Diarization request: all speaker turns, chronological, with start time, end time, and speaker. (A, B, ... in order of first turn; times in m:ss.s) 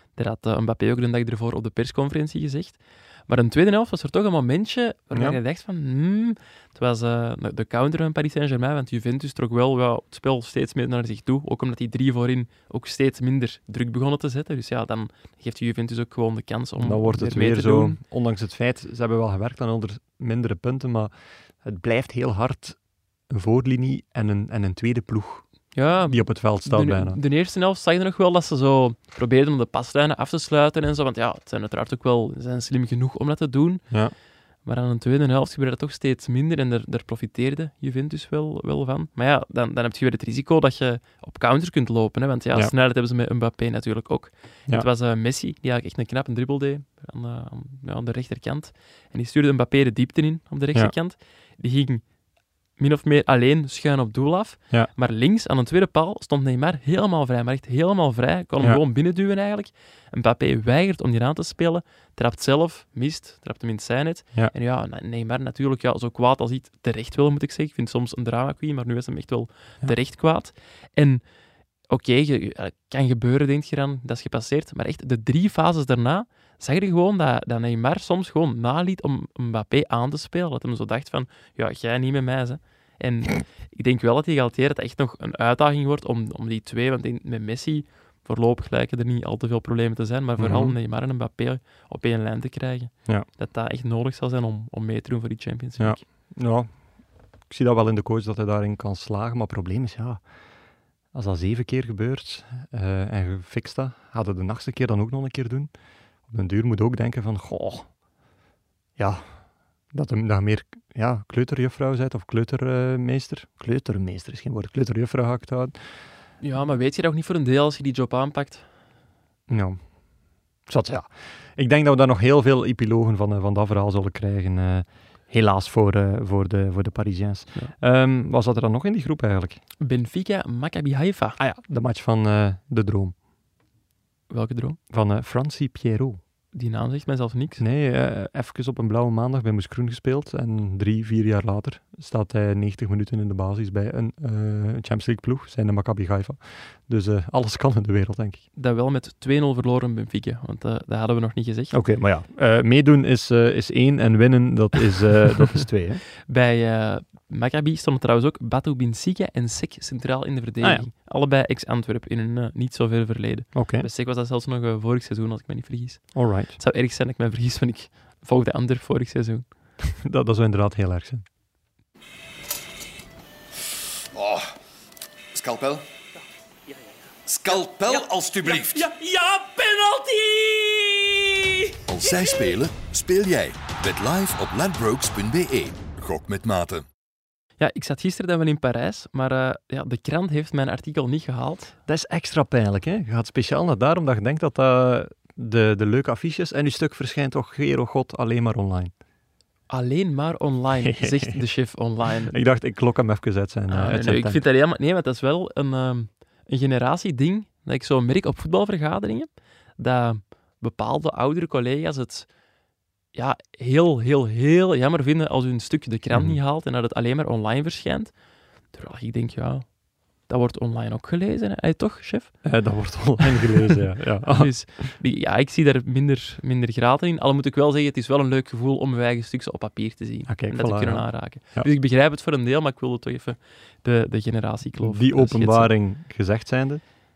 0:00.1-0:18.0 A
0:05.1-0:05.4 B
0:16.8-0:27.2 B
0:25.7-0:34.1 A
0:34.6-0:52.1 A
0:52.8-1:11.2 A
1:11.9-1:36.0 A
1:30.4-1:30.8 B
1:35.8-1:36.9 B
1:37.4-1:40.3 B
1:41.1-1:45.7 B
1:46.3-1:47.9 B
1:49.0-1:55.8 B
1:56.4-1:58.7 A
1:59.5-2:00.0 B
2:00.6-2:09.6 B
2:09.8-2:11.4 A
2:11.4-2:13.1 B
2:14.3-2:14.8 A
2:14.9-2:16.2 B
2:16.5-2:17.6 A
2:17.6-2:28.4 B
2:28.6-2:31.7 A
2:31.7-2:36.0 B
2:36.3-2:49.5 A
2:43.5-2:43.9 B
2:46.1-2:46.5 B
2:50.0-2:51.2 B
2:54.1-2:54.5 C
2:55.3-2:55.8 C
2:57.3-2:58.8 C
2:58.4-3:00.4 D
2:58.8-2:59.4 A
3:01.9-3:06.8 C
3:07.6-3:11.8 A
3:11.9-3:18.9 B
3:19.7-3:22.4 A
3:20.8-3:21.4 B
3:22.3-3:24.4 B
3:23.7-3:32.3 A
3:33.1-3:42.4 A
3:36.1-3:36.4 B
3:42.4-3:44.6 B
3:44.2-3:55.7 A
3:50.3-3:51.7 B
3:54.8-3:56.8 B